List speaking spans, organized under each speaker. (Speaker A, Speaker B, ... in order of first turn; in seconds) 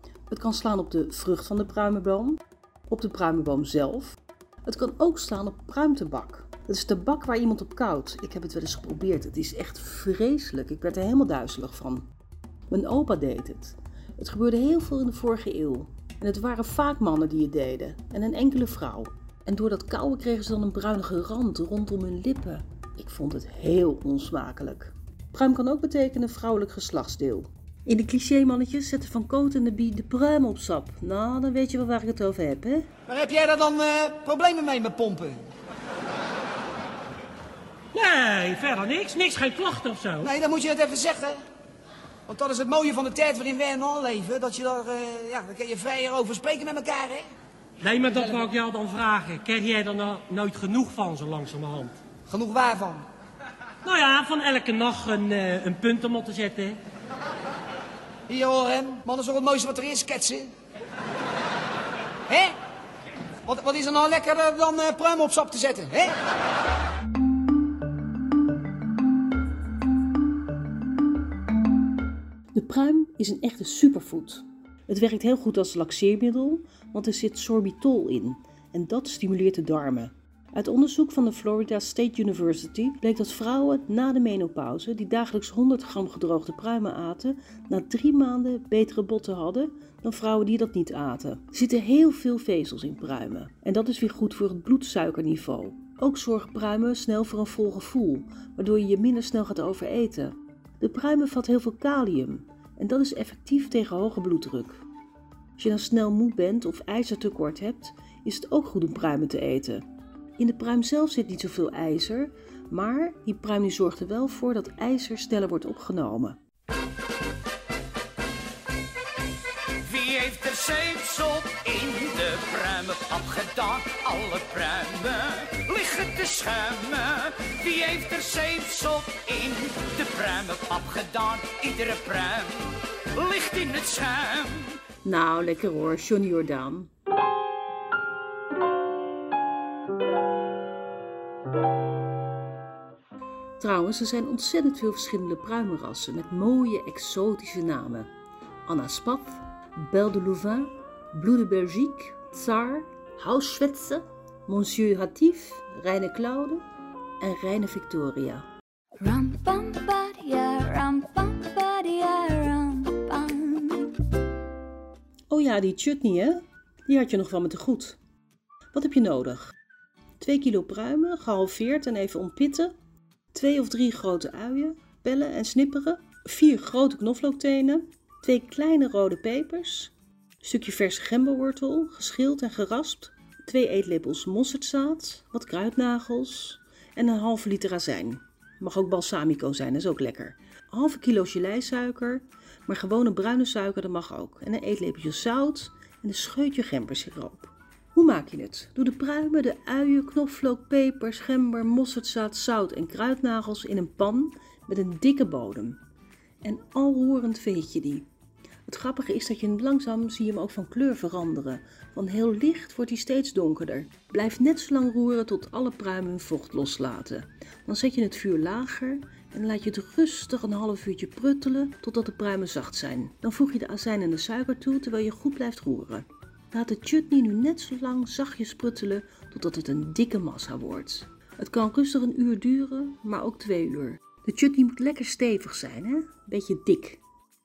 Speaker A: 0.3-12.1, 12.7-32.9, 72.5-104.8, 105.6-109.8, 110.4-116.4, 135.0-136.9, 143.6-148.1, 148.7-156.6, 157.2-158.4, 165.3-168.0, 168.7-169.5, 170.2-172.7, 173.3-205.8, 206.4-208.1, 208.7-237.0
Speaker B: 33.1-35.4, 40.2-41.4, 42.3-47.3, 52.3-53.0, 58.3-60.5, 62.3-62.5, 63.5-66.2
Speaker C: 37.9-40.3, 47.8-52.0, 53.8-56.8
Speaker D: 119.8-134.8
Speaker E: 159.0-164.0